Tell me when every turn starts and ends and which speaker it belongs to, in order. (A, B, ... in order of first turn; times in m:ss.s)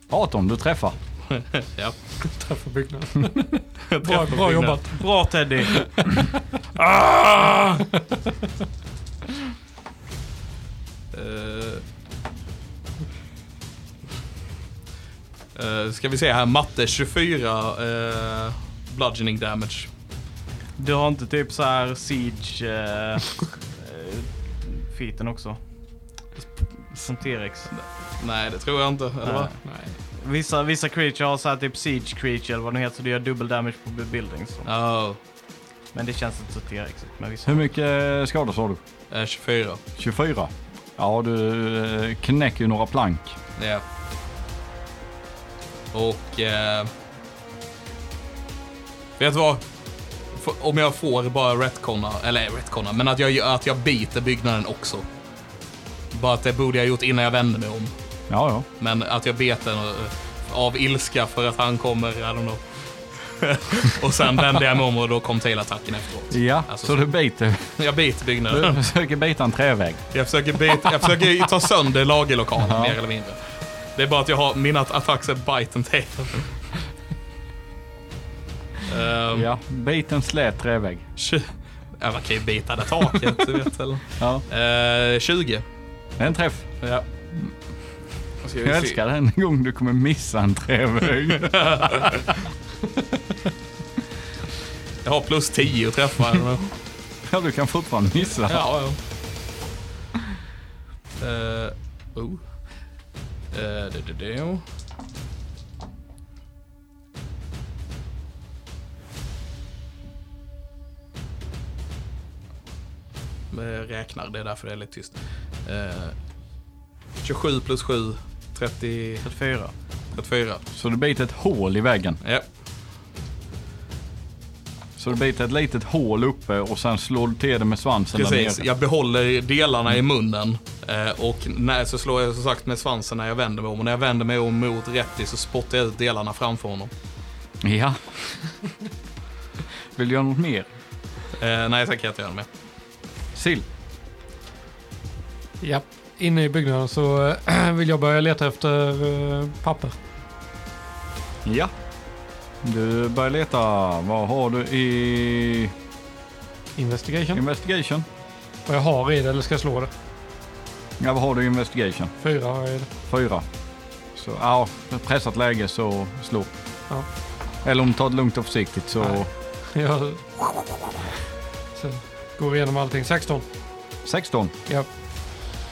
0:00.1-0:01.0 A
0:01.3-0:02.1 B
0:02.2-0:05.1 C
0:03.9-0:04.9 B
0:05.0-0:05.7 D
0:05.6-0:08.0 C
0:11.1-0:11.8 B
0:15.6-0:19.9 B
0:20.8-0:25.6 D
0:27.0-0:27.7 D
0:27.7-0:29.6 B
0:29.2-0:29.6 D
0:29.6-0:30.0 C
0:30.2-0:34.7 D
0:34.6-0:35.2 B
0:35.9-0:37.7 D
0:37.4-0:38.8 A
0:39.1-0:39.8 B
0:40.0-0:43.4 A
0:43.6-0:43.8 B
0:45.9-0:46.9 B
0:49.2-0:49.6 B
0:50.3-0:55.1 B
0:56.1-0:57.9 B
0:58.3-0:58.7 A
0:58.8-1:07.1 B
1:06.3-1:07.8 A
1:07.8-1:08.8 B
1:08.5-1:10.1 A
1:10.1-1:16.6 B
1:12.6-1:13.0 A
1:18.8-1:19.5 B
1:19.3-1:21.0 A
1:21.2-1:25.6 B
1:24.2-1:24.4 A
1:26.2-1:26.8 A
1:26.8-1:27.1 B
1:28.4-1:29.0 B
1:28.6-1:32.1 A
1:31.4-1:32.3 B
1:35.0-1:36.7 B
1:37.2-1:38.7 A
1:38.5-1:39.0 B
1:41.2-1:42.7 B
1:43.5-1:44.6 B
1:53.5-1:56.2 B
1:57.2-1:59.3 B
1:59.2-1:59.7 D
2:00.1-2:00.6 B
2:00.7-2:02.2 A
2:02.2-2:02.5 B
2:05.0-2:08.6 A
2:08.1-2:16.9 B
2:17.6-2:18.4 A
2:20.0-2:20.7 A
2:21.4-2:22.5 B
2:23.3-2:23.7 A
2:25.6-2:30.0 C
2:31.4-2:31.7 A
2:32.6-2:35.7 A
2:36.8-2:37.4 C
2:37.3-2:38.0 A
2:38.7-2:39.9 C
2:41.0-2:42.1 A
2:42.2-2:42.9 C
2:43.1-2:43.5 A
2:44.1-2:46.5 A
2:47.6-2:49.3 A
2:49.0-2:51.1 C
2:51.7-2:53.4 C
2:54.0-2:54.5 A